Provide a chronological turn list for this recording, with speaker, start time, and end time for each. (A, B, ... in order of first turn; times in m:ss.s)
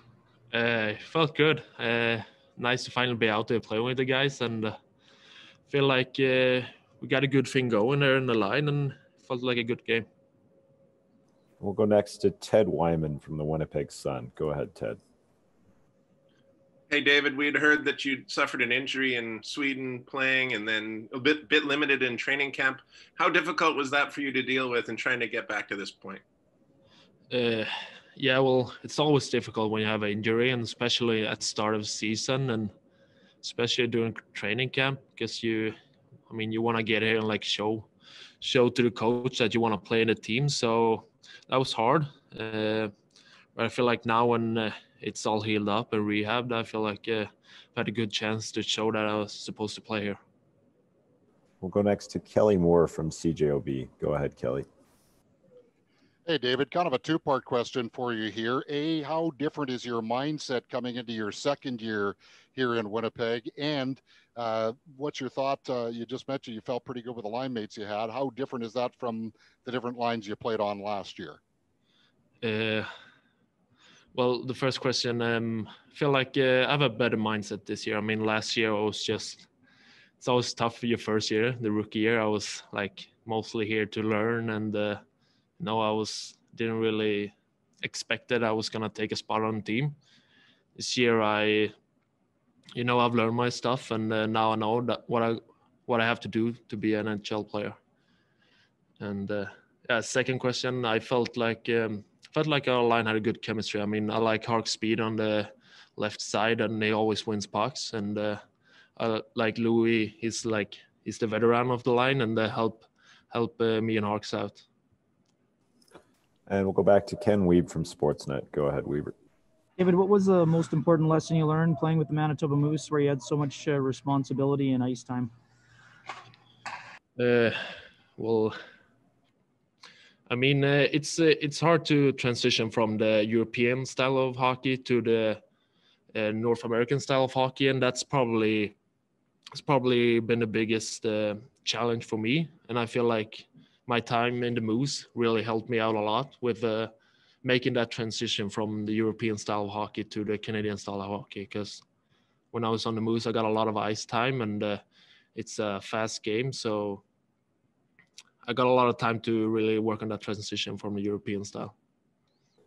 0:00.5-0:04.7 A
0:05.7-0:10.0 A
0:11.6-0:15.0 B
0:16.9-0:26.2 C
0:27.3-0:32.7 A
0:33.4-0:35.7 A
0:36.3-0:37.9 A
0:38.4-0:42.9 A
0:43.6-0:50.2 A
0:51.6-0:54.7 B
0:56.3-1:11.4 D
1:12.4-1:12.9 A
1:14.1-1:19.5 A
1:20.2-1:25.0 A
1:25.6-1:30.0 A
1:30.8-1:31.7 A
1:32.8-1:37.8 A
1:39.0-1:48.4 A
1:49.0-1:54.6 A
1:56.5-1:59.1 B
1:59.8-2:05.3 E
2:07.2-2:08.6 A
2:10.3-2:15.4 A
2:16.1-2:18.8 A
2:19.6-2:26.9 A
2:27.4-2:31.8 A
2:32.5-2:34.8 A
2:35.3-2:37.0 A
2:38.5-2:41.7 A